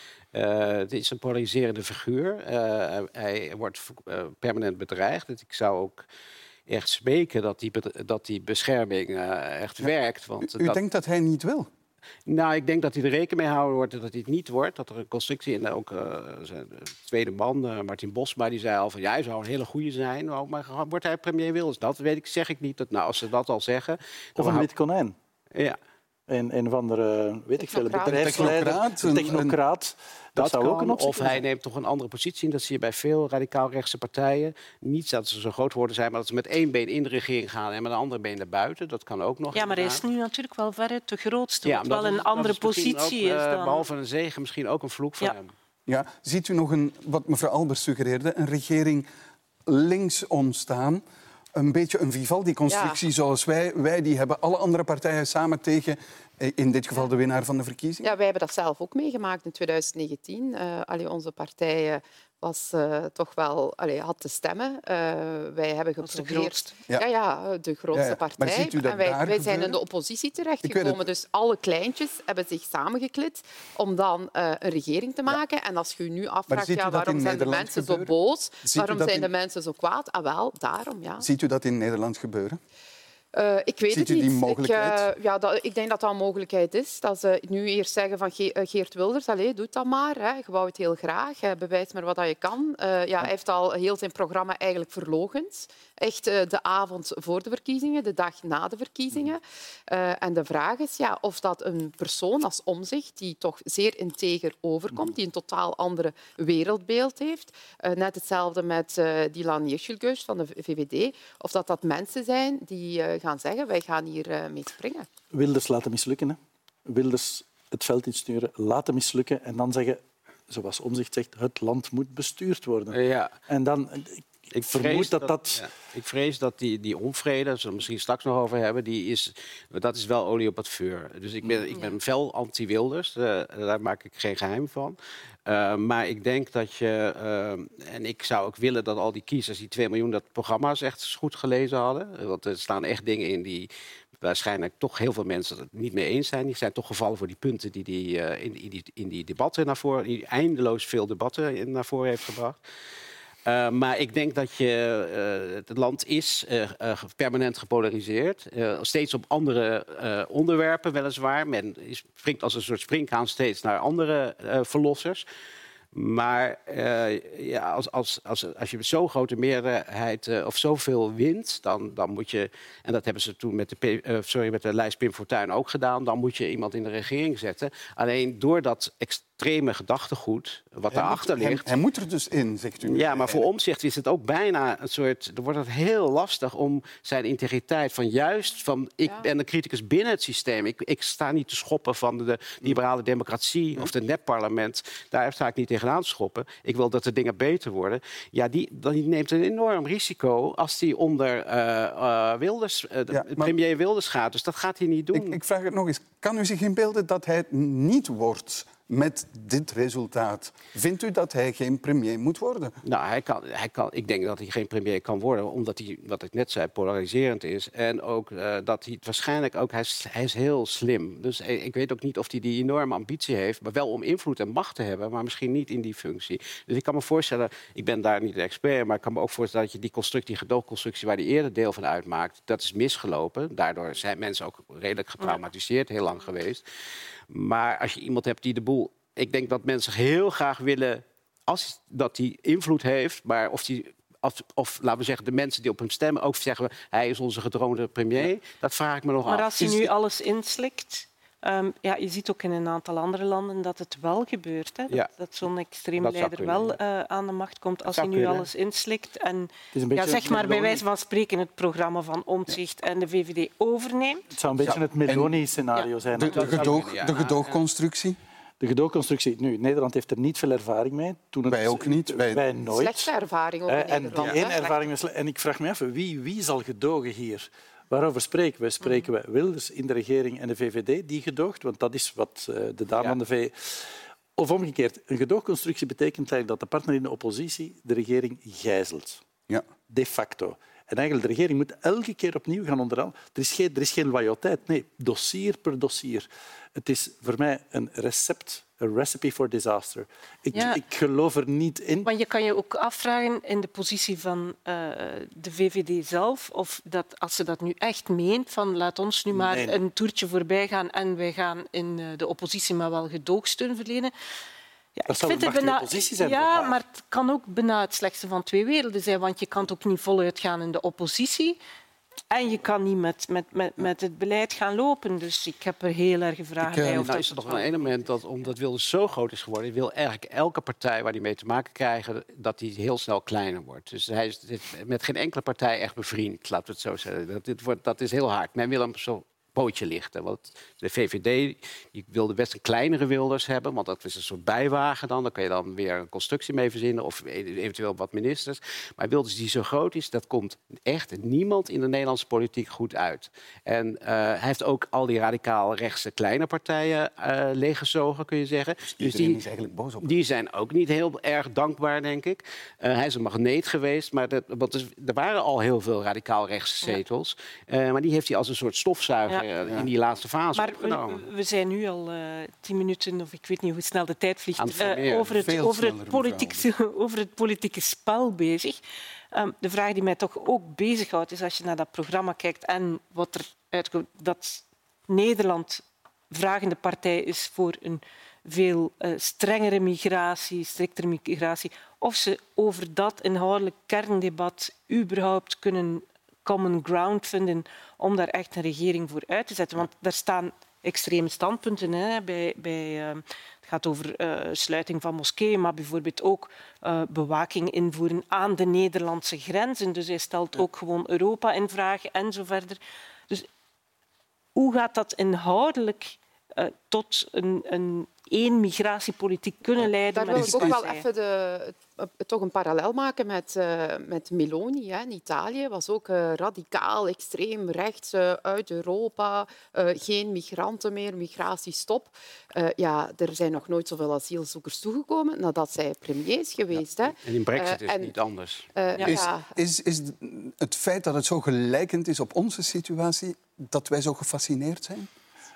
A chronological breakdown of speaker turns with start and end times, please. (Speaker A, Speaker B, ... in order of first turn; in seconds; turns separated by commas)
Speaker A: 0.3-6.1, Speaker A: 6.7-10.8, Speaker B: 9.8-11.7, Speaker A: 12.3-24.7, Speaker C: 24.4-25.1, Speaker C: 26.3-31.5, Speaker D: 27.6-28.6, Speaker B: 28.1-29.6, Speaker A: 30.4-40.0, Speaker E: 39.5-43.8, Speaker A: 41.6-45.5, Speaker B: 45.9-49.1, Speaker B: 49.7-51.0, Speaker B: 51.5-58.1, Speaker D: 52.7-53.0, Speaker D: 58.0-81.3, Speaker E: 66.0-66.7, Speaker B: 67.9-69.8, Speaker B: 70.6-71.0, Speaker B: 76.5-79.3, Speaker B: 81.2-82.6, Speaker D: 83.3-115.1, Speaker B: 83.9-85.1, Speaker C: 115.3-123.0, Speaker A: 122.9-123.3, Speaker C: 123.5-125.7, Speaker A: 124.5-143.7, Speaker A: 144.2-152.6, Speaker A: 153.5-165.3, Speaker A: 165.9-181.7, Speaker B: 180.9-183.4, Speaker A: 182.8-205.4, Speaker B: 203.1-203.5, Speaker B: 205.1-212.8, Speaker A: 212.8-236.6, Speaker A: 237.3-249.5, Speaker E: 249.3-264.2, Speaker B: 249.6-249.9, Speaker A: 256.0-256.8, Speaker A: 257.9-258.5, Speaker C: 259.7-260.8, Speaker C: 264.3-266.7, Speaker B: 264.6-265.4, Speaker B: 266.2-268.2, Speaker A: 266.3-267.6, Speaker C: 268.6-273.1, Speaker B: 271.5-272.4, Speaker D: 272.7-274.9, Speaker C: 273.7-289.2, Speaker A: 282.9-283.2, Speaker C: 289.9-302.1, Speaker E: 300.5-300.8, Speaker E: 302.0-314.1, Speaker C: 309.3-309.8, Speaker E: 315.0-321.6, Speaker C: 315.1-316.8, Speaker E: 322.3-327.9, Speaker B: 326.6-327.1, Speaker A: 326.9-359.4, Speaker B: 358.9-360.2, Speaker A: 360.0-371.2, Speaker E: 370.6-378.8, Speaker A: 374.6-375.4, Speaker B: 375.3-376.7, Speaker E: 379.3-412.8, Speaker E: 414.6-421.1, Speaker D: 420.1-438.1, Speaker B: 420.3-420.8, Speaker A: 436.8-438.7, Speaker D: 438.8-439.5, Speaker B: 439.0-445.1